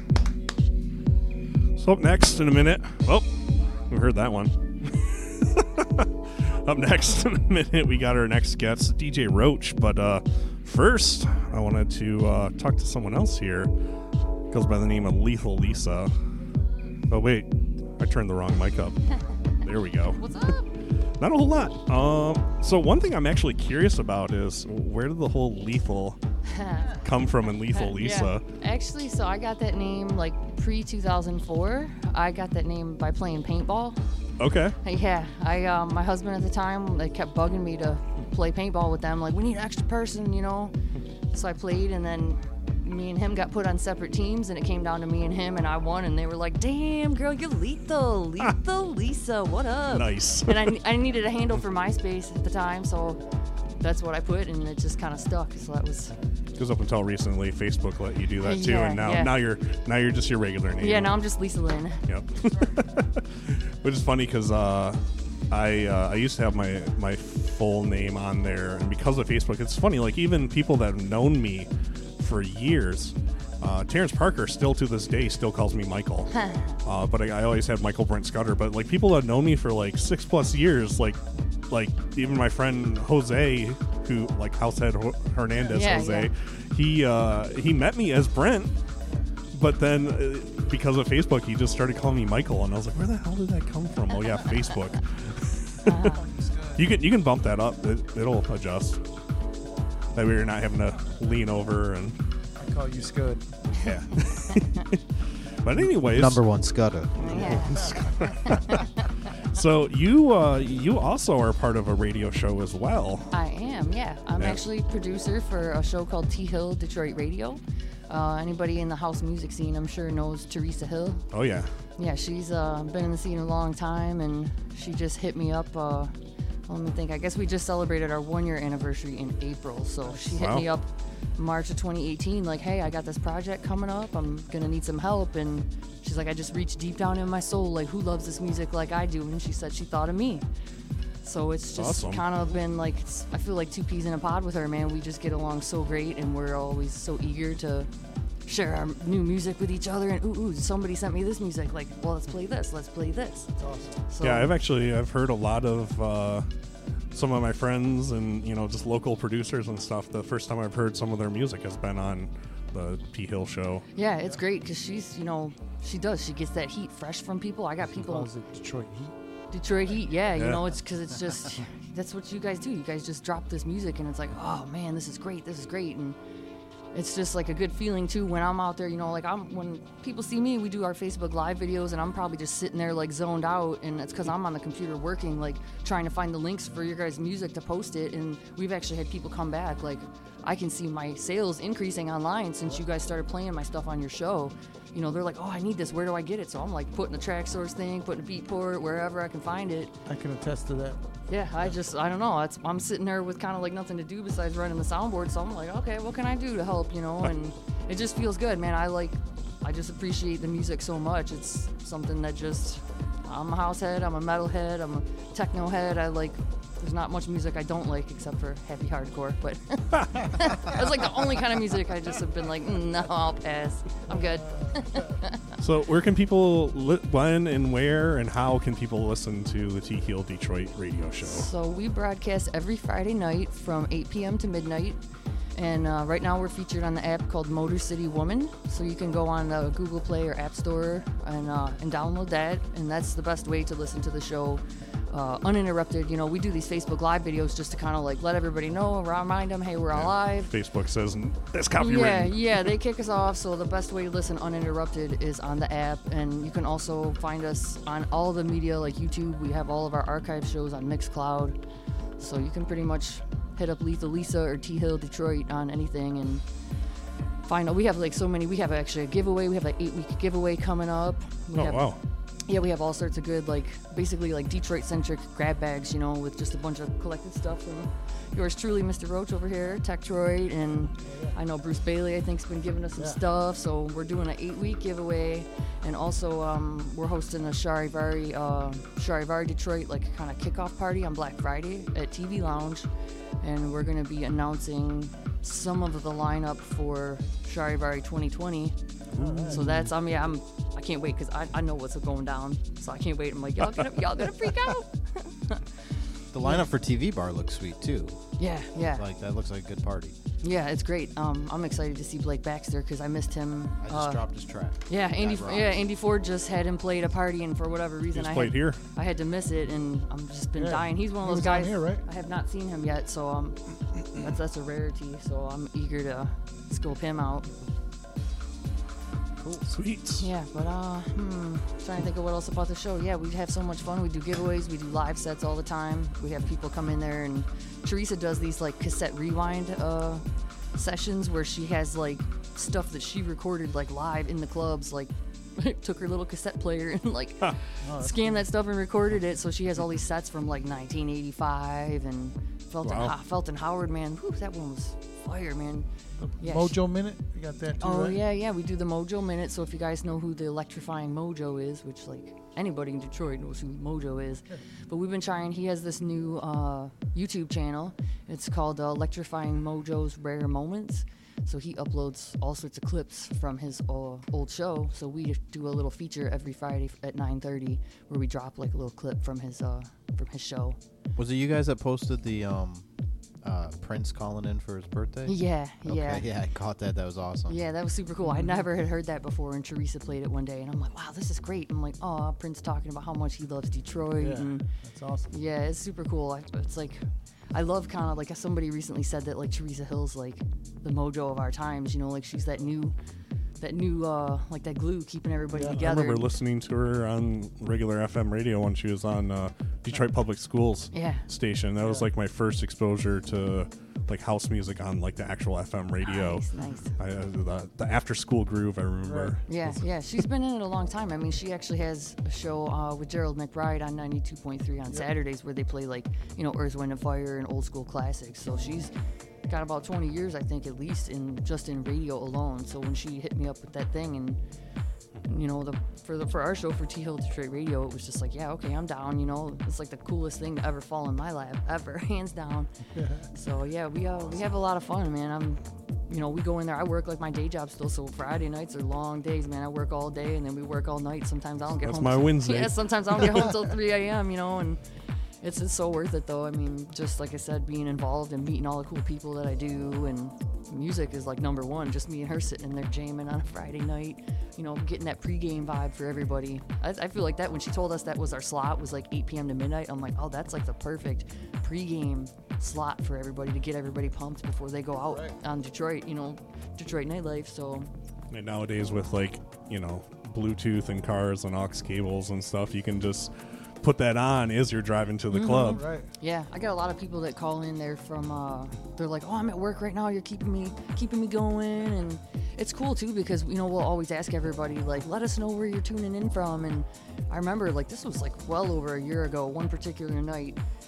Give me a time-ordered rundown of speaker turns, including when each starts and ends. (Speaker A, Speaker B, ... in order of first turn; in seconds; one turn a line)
Speaker A: 1.8-3.3
Speaker A: 3.9-13.7
Speaker A: 14.5-16.1
Speaker A: 17.1-19.0
Speaker A: 19.6-20.3
Speaker B: 20.2-20.7
Speaker A: 21.2-26.2
Speaker B: 26.5-27.0
Speaker A: 27.0-28.4
Speaker B: 27.7-34.0
Speaker A: 34.4-34.8
Speaker B: 34.8-40.7
Speaker B: 41.3-53.2
Speaker A: 49.9-50.8
Speaker B: 53.8-56.1
Speaker A: 56.5-61.2
Speaker B: 58.4-59.3
Speaker B: 60.8-62.0
Speaker A: 62.1-76.3
Speaker B: 76.3-76.8
Speaker A: 76.8-88.7
Speaker B: 85.6-86.3
Speaker A: 89.5-96.0
Speaker B: 95.8-96.2
Speaker C: 96.2-96.9
Speaker A: 96.7-99.0
Speaker A: 100.1-102.2
Speaker C: 102.5-103.7
Speaker A: 103.8-105.0
Speaker A: 105.6-108.8
Speaker D: 106.0-107.6
Speaker B: 107.2-107.8
Speaker A: 109.5-113.3
Speaker B: 113.3-121.3
Speaker A: 114.3-114.6
Speaker A: 121.3-121.8
Speaker B: 122.0-126.1
Speaker B: 126.7-140.4
Speaker C: 130.0-130.3
Speaker A: 130.4-130.7
Speaker B: 141.2-147.9
Speaker A: 141.8-142.3
Speaker B: 148.4-153.5
Speaker C: 153.6-154.1
Speaker B: 154.1-154.5
Speaker A: 154.2-156.5
Speaker A: 157.1-163.8
Speaker B: 163.9-168.3
Speaker C: 168.0-169.2
Speaker B: 169.5-176.2
Speaker A: 170.3-170.6
Speaker B: 176.9-199.9
Speaker C: 200.1-201.8
Speaker B: 201.3-225.4
Speaker C: 224.1-225.0
Speaker A: 225.6-231.5
Speaker B: 231.2-235.0
Speaker B: 235.6-250.5
Speaker A: 249.9-252.7
Speaker B: 251.8-261.6
Speaker B: 262.2-266.4
Speaker B: 267.5-271.9
Speaker A: 271.5-272.0
Speaker B: 272.4-292.9
Speaker C: 281.0-281.4
Speaker C: 282.9-283.2
Speaker B: 293.4-298.8
Speaker C: 299.1-299.9
Speaker A: 299.2-299.6
Speaker B: 299.5-305.6
Speaker D: 306.3-310.1
Speaker B: 308.4-309.0
Speaker B: 310.4-327.5
Speaker D: 313.8-315.8
Speaker A: 318.1-318.8
Speaker C: 320.6-322.0
Speaker C: 329.4-329.6
Speaker A: 329.7-330.3
Speaker B: 330.2-355.9
Speaker C: 347.8-348.4
Speaker A: 352.8-353.1
Speaker C: 356.2-358.2
Speaker B: 356.4-356.9
Speaker B: 357.8-380.8
Speaker D: 381.1-382.9
Speaker D: 383.4-387.6
Speaker B: 385.2-386.3
Speaker B: 387.4-394.7
Speaker C: 388.2-388.7
Speaker C: 394.2-395.3
Speaker B: 395.3-402.9
Speaker B: 403.6-406.2
Speaker C: 405.5-405.8
Speaker A: 405.6-419.8
Speaker B: 410.9-411.2
Speaker C: 411.8-412.1
Speaker B: 416.0-416.9
Speaker C: 416.6-416.9
Speaker C: 419.0-419.8
Speaker B: 419.5-428.9
Speaker B: 429.5-434.4
Speaker B: 435.3-442.7
Speaker C: 442.9-443.3
Speaker B: 443.3-454.8
Speaker A: 451.8-453.4
Speaker B: 455.4-477.9
Speaker C: 475.0-475.3
Speaker A: 478.3-485.8
Speaker B: 485.3-500.6
Speaker C: 485.5-486.1